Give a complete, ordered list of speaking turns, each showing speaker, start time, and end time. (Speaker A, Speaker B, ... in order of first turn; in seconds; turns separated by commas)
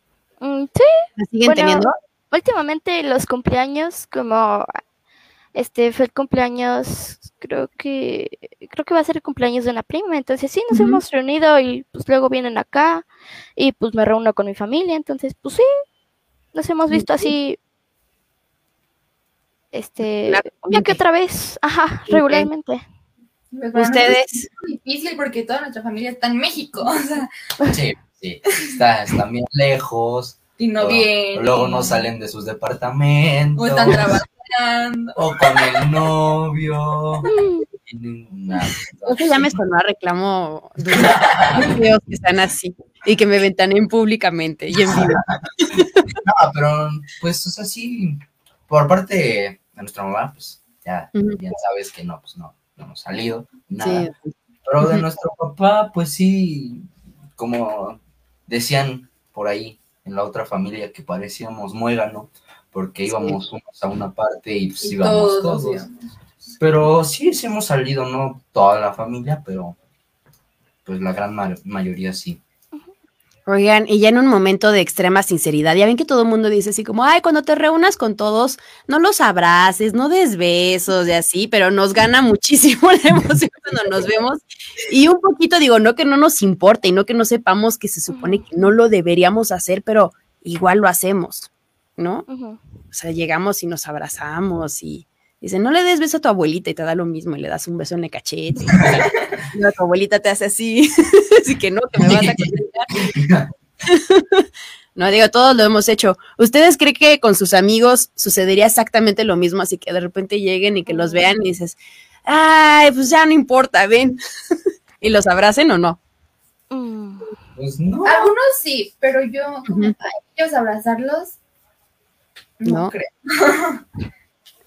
Speaker A: 0.4-4.7, Speaker B: 1.2-1.9, Speaker A: 5.5-13.1, Speaker B: 10.7-11.0, Speaker A: 13.6-15.7, Speaker A: 16.5-17.6, Speaker B: 16.9-17.3, Speaker A: 19.7-22.8, Speaker B: 20.2-21.0, Speaker B: 22.1-22.5, Speaker C: 23.5-27.3, Speaker B: 23.7-24.5, Speaker D: 27.7-34.2, Speaker C: 30.6-31.9, Speaker C: 33.6-35.7, Speaker D: 35.1-37.3, Speaker A: 37.3-37.7, Speaker D: 37.9-39.6, Speaker B: 39.0-46.0, Speaker D: 40.9-41.7, Speaker D: 44.9-45.4, Speaker D: 46.1-54.1, Speaker B: 51.1-51.4, Speaker B: 53.8-55.0, Speaker D: 54.6-56.9, Speaker D: 57.4-65.9, Speaker C: 64.8-65.9, Speaker D: 66.6-69.8, Speaker D: 70.8-72.4, Speaker B: 73.5-92.2, Speaker A: 88.1-88.4, Speaker A: 92.3-92.6, Speaker B: 92.9-98.9, Speaker B: 99.5-102.9, Speaker D: 102.0-103.5, Speaker B: 103.9-114.2, Speaker A: 110.9-111.3, Speaker B: 115.0-116.0, Speaker A: 116.7-117.3, Speaker D: 117.5-118.3, Speaker C: 118.0-121.4, Speaker B: 119.7-119.9, Speaker C: 122.6-123.8, Speaker B: 122.7-122.9